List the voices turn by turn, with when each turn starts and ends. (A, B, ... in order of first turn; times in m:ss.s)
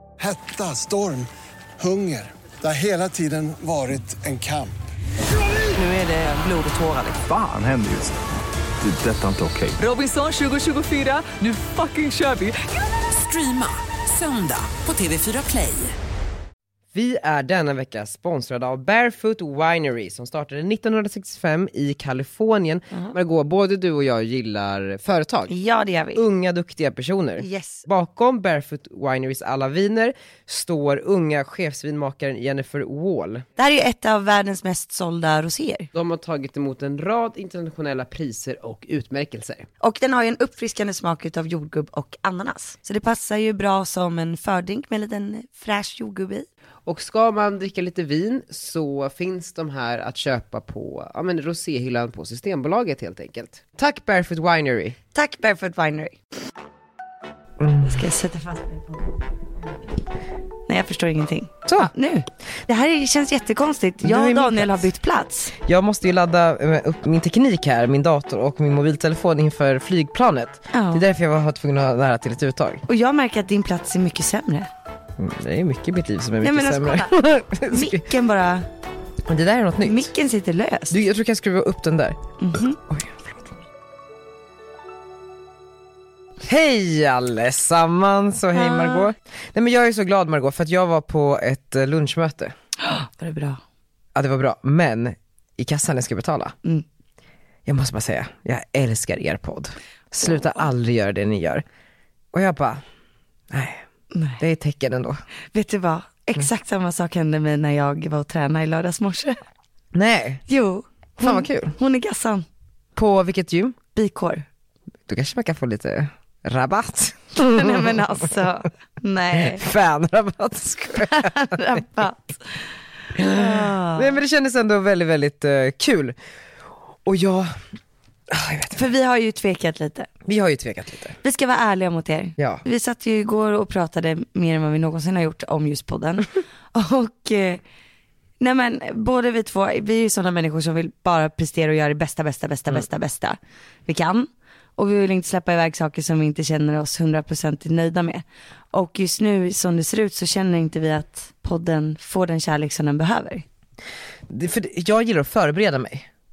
0:00.2-0:01.3 A
0:01.8-0:04.8 A
0:05.7-0:07.2 B
0:07.2-0:08.2 C
0:08.8-0:09.8 C
0:09.8-0:16.0 B
0:16.9-0:25.5 D
0:25.5-0:26.2 E
0:26.2-0:33.4 D
0:27.4-0:27.9 E
0:33.6-0:35.9 E
0:35.9-0:39.7 D
0:39.8-0:46.5 E
0:46.9-0:55.0 D
0:55.2-0:56.2 E
0:57.6-0:58.0 D
0:57.8-0:59.2 E
1:00.7-1:05.5 E
1:04.0-1:04.9 D
1:05.6-1:12.8 D
1:10.7-1:11.0 E
1:12.9-1:14.7 E
1:15.2-1:18.1 D
1:16.4-1:18.7 E
1:19.2-1:20.1 D
1:19.8-1:21.0 E
1:20.9-1:22.2 D
1:22.4-1:22.8 E
1:22.8-1:23.6 D
1:26.4-1:32.5 D
1:28.5-1:29.1 E
1:32.8-1:33.6 E
1:34.2-1:36.6 D
1:37.7-1:41.6 D
1:40.3-1:40.6 E
1:42.3-1:42.8 D
1:43.5-1:43.8 D
1:44.1-1:44.4 E
1:44.4-1:45.2 D
1:45.5-1:49.4 E
1:49.9-1:50.4 D
1:50.5-1:52.5 E
1:51.2-1:51.8 D
1:53.0-1:53.8 D
1:54.0-1:54.4 E
1:55.1-1:58.3 D
1:57.4-1:59.6 E
1:59.3-2:01.8 D
2:01.1-2:02.6 E
2:03.2-2:06.2 D
2:03.2-2:04.2 E
2:07.0-2:07.6 D
2:08.3-2:08.9 D
2:08.7-2:10.1 E
2:10.2-2:11.2 D
2:11.2-2:17.6 E
2:12.4-2:12.6 D
2:18.4-2:33.4 E
2:34.3-2:36.1 D